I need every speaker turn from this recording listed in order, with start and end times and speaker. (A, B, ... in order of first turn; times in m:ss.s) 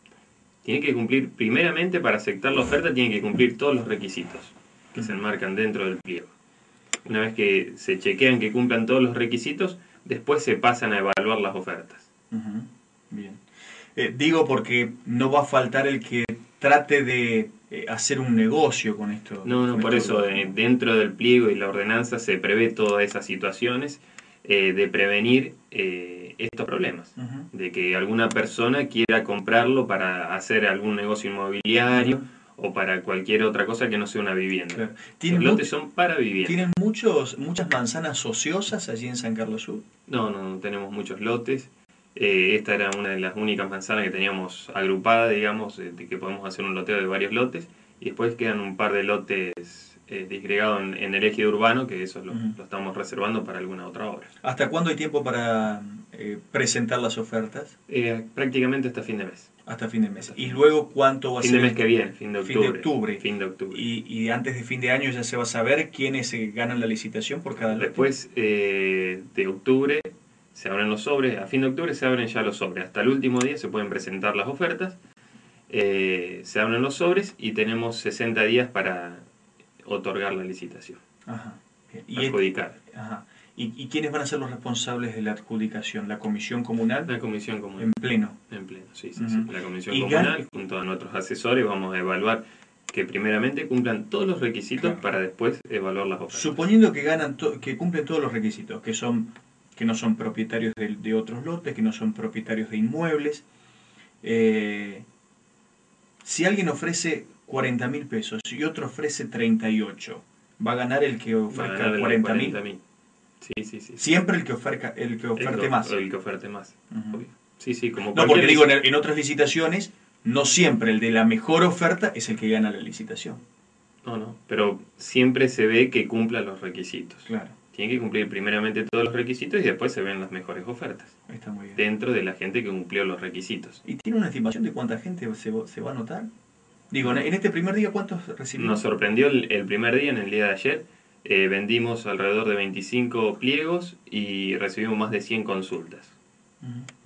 0:00.6-0:06.3 A
0:04.9-0:05.2 B
0:07.0-0:12.1 A
0:12.3-0:13.4 B
0:14.0-0:20.5 B
0:19.4-0:36.7 A
0:27.2-0:27.5 B
0:31.9-0:32.2 B
0:34.7-0:35.7 B
0:36.4-0:39.8 B
0:40.1-0:54.3 A
0:52.3-0:52.6 B
0:54.4-0:57.8 B
0:57.9-0:59.5 A
0:59.7-1:01.8 B
1:00.2-1:00.7 A
1:01.4-1:03.8 A
1:02.4-1:08.1 B
1:07.6-1:15.0 A
1:15.7-1:19.2 A
1:19.8-1:21.0 A
1:21.3-1:27.1 B
1:22.2-1:22.8 A
1:27.1-1:27.9 A
1:27.8-1:28.4 B
1:28.5-1:36.7 A
1:29.2-1:30.4 B
1:34.8-1:35.0 B
1:36.3-1:43.4 B
1:44.2-1:45.1 B
1:46.2-1:52.6 B
1:51.5-1:52.8 A
1:53.4-1:54.1 A
1:54.0-1:55.9 B
1:55.4-1:58.8 A
1:56.9-1:57.2 B
1:58.1-2:03.4 B
2:04.0-2:11.1 A
2:07.3-2:07.6 B
2:11.3-2:11.8 B
2:11.8-2:13.8 A
2:13.8-2:16.3 B
2:16.9-2:18.8 B
2:18.6-2:26.1 A
2:26.6-2:26.9 B